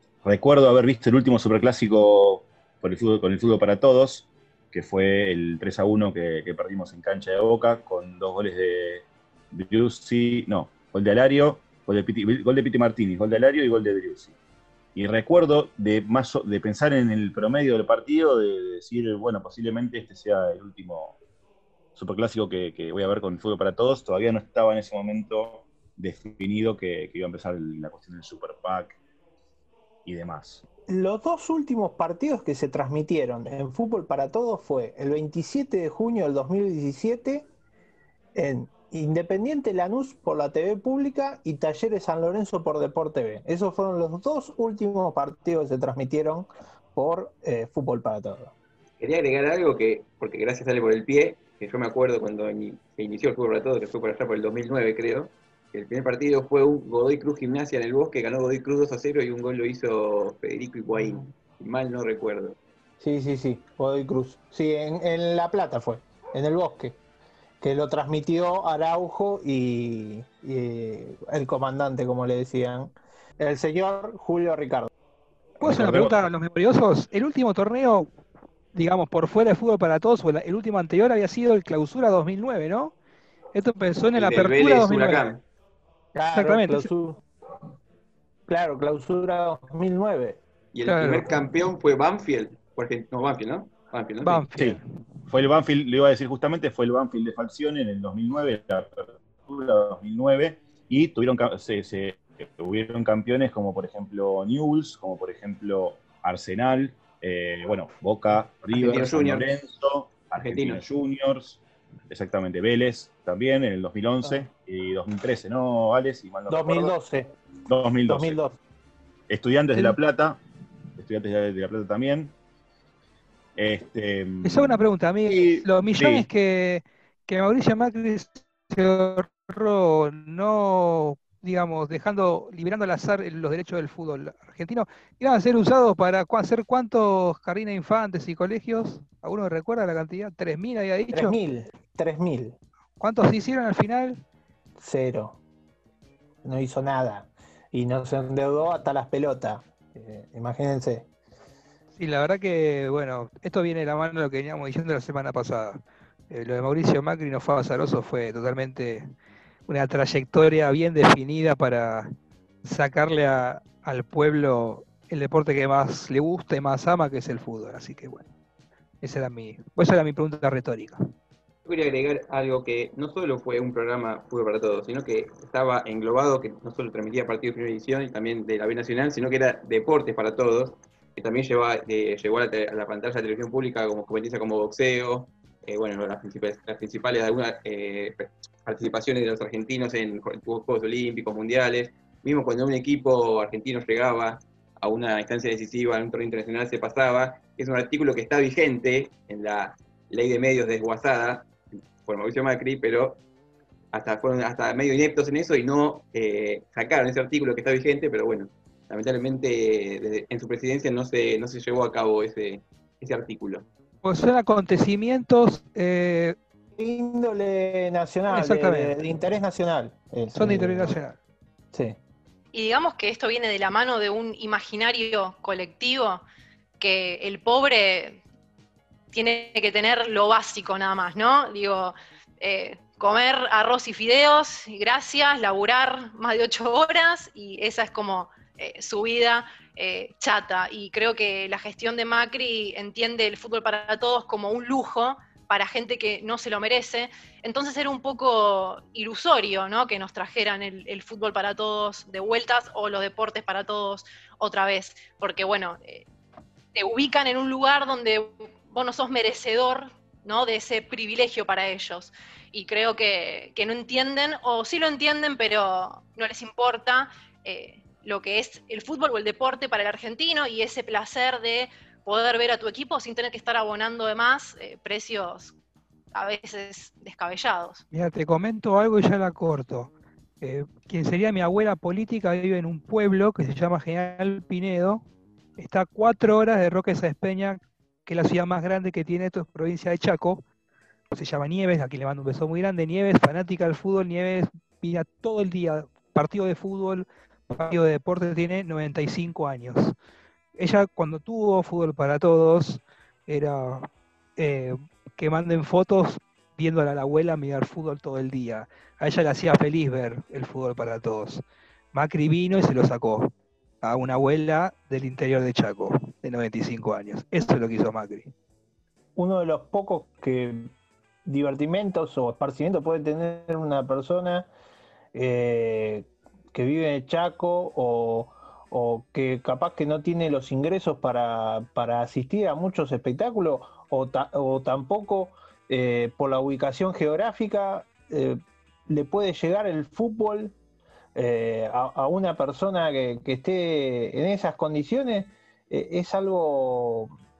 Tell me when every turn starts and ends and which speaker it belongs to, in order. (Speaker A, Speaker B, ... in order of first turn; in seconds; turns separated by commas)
Speaker A: 0.2-14.3, Speaker A: 14.9-21.2, Speaker A: 21.9-29.0, Speaker A: 30.0-30.6, Speaker B: 30.9-37.5, Speaker B: 38.3-48.5, Speaker C: 49.0-62.6, Speaker B: 63.0-67.0, Speaker B: 67.6-74.9, Speaker D: 75.6-78.1, Speaker B: 75.6-76.2, Speaker D: 78.7-82.9, Speaker D: 83.5-85.3, Speaker C: 84.1-85.4, Speaker B: 86.1-87.2, Speaker D: 86.3-86.9, Speaker B: 88.5-90.4, Speaker C: 90.7-94.5, Speaker D: 90.8-91.4, Speaker D: 94.2-94.8, Speaker A: 95.3-116.9, Speaker C: 108.7-109.5, Speaker C: 110.4-110.8, Speaker B: 116.5-117.3, Speaker A: 117.7-118.4, Speaker B: 118.0-118.6, Speaker A: 119.3-120.4, Speaker A: 121.0-122.3, Speaker A: 123.5-126.3, Speaker D: 124.4-141.4, Speaker B: 141.1-142.6, Speaker D: 143.0-144.2, Speaker B: 144.8-145.4, Speaker B: 146.4-151.1, Speaker D: 151.9-159.1, Speaker D: 159.7-162.1, Speaker D: 162.6-168.3, Speaker D: 169.0-171.0, Speaker C: 171.6-201.5, Speaker C: 202.0-203.2, Speaker C: 203.9-213.7, Speaker D: 214.0-216.3, Speaker B: 216.8-221.0, Speaker D: 218.3-219.0, Speaker D: 220.3-221.2, Speaker B: 221.7-222.0, Speaker E: 222.5-226.2, Speaker E: 226.8-228.2, Speaker E: 229.1-256.0, Speaker E: 256.7-275.5, Speaker E: 276.1-277.8, Speaker D: 277.9-285.0, Speaker D: 285.6-290.4, Speaker D: 291.1-299.9, Speaker D: 300.6-318.3, Speaker B: 319.1-320.7, Speaker B: 321.2-324.5, Speaker B: 325.1-340.5, Speaker B: 341.1-347.1